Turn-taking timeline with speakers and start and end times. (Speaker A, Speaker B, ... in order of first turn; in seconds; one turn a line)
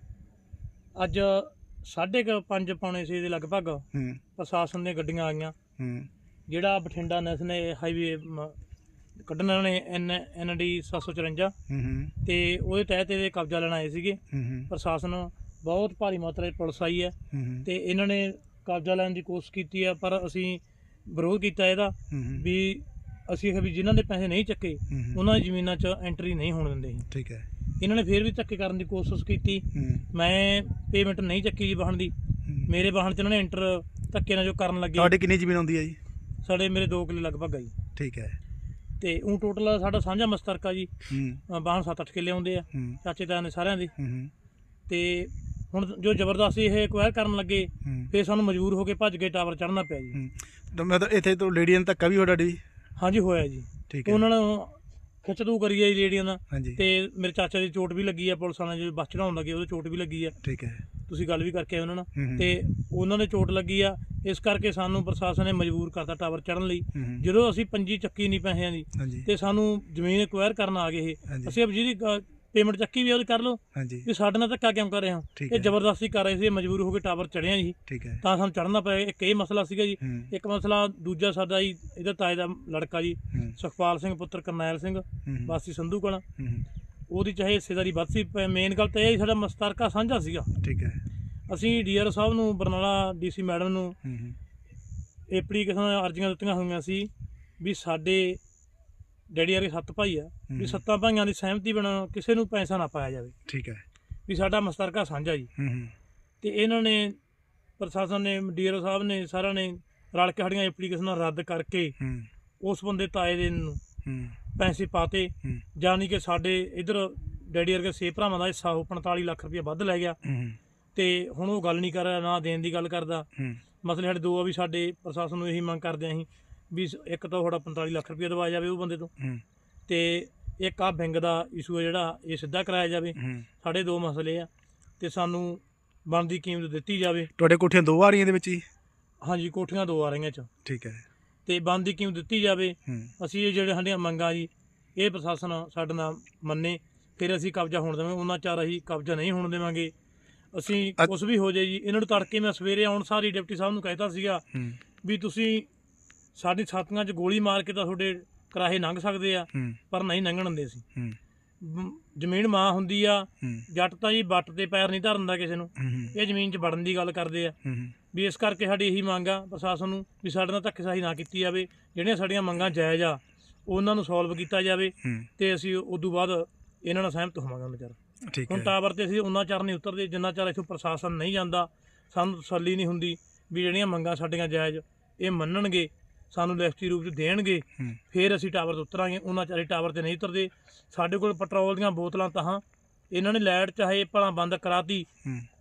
Speaker A: 0.9-3.8
Speaker B: 3.9-4.2
Speaker A: 4.3-5.6
Speaker B: 5.8-6.1
Speaker A: 6.5-8.5
Speaker A: 9.2-11.5
Speaker B: 11.7-12.1
Speaker A: 12.2-27.1
Speaker B: 14.3-14.7
Speaker B: 17.3-17.7
Speaker B: 22.1-22.4
Speaker B: 24.9-25.2
Speaker B: 27.1-27.4
Speaker A: 27.8-32.1
Speaker B: 29.7-30.1
Speaker A: 32.6-35.1
Speaker B: 35.0-36.0
Speaker A: 36.4-37.8
Speaker B: 38.0-38.4
Speaker A: 39.0-43.9
Speaker B: 41.1-41.4
Speaker B: 42.7-43.0
Speaker B: 44.0-44.3
Speaker A: 44.9-50.2
Speaker B: 47.8-48.1
Speaker B: 50.1-52.6
Speaker A: 53.0-60.4
Speaker B: 53.9-54.2
Speaker B: 56.5-56.8
Speaker B: 60.4-60.8
Speaker A: 61.1-86.2
Speaker B: 62.1-62.5
Speaker B: 66.9-67.2
Speaker B: 69.0-69.3
Speaker B: 71.3-71.5
Speaker B: 73.7-74.1
Speaker B: 75.3-75.7
Speaker B: 77.9-78.2
Speaker B: 80.0-80.3
Speaker B: 85.2-85.5
Speaker B: 86.4-86.6
Speaker A: 87.1-90.5
Speaker B: 90.6-91.0
Speaker A: 91.5-94.0
Speaker B: 94.0-94.4
Speaker A: 95.3-98.4
Speaker A: 99.3-103.3
Speaker B: 100.5-100.8
Speaker B: 103.5-103.8
Speaker A: 104.3-105.5
Speaker B: 105.6-105.9
Speaker A: 106.4-107.2
Speaker A: 107.8-111.9
Speaker B: 112.0-112.3
Speaker A: 112.6-113.8
Speaker B: 114.0-114.4
Speaker A: 114.5-120.2
Speaker B: 120.2-120.6
Speaker A: 120.9-123.3
Speaker A: 123.8-129.1
Speaker A: 129.9-134.5
Speaker B: 133.2-133.4
Speaker A: 135.0-137.3
Speaker B: 137.4-138.6
Speaker A: 139.2-140.5
Speaker B: 140.6-141.0
Speaker A: 141.4-149.9
Speaker A: 150.5-154.4
Speaker A: 155.0-155.7
Speaker A: 156.3-160.8
Speaker A: 161.6-167.6
Speaker B: 165.8-166.1
Speaker B: 167.6-167.9
Speaker A: 168.1-178.0
Speaker B: 175.0-175.3
Speaker B: 178.3-178.7
Speaker A: 178.5-195.1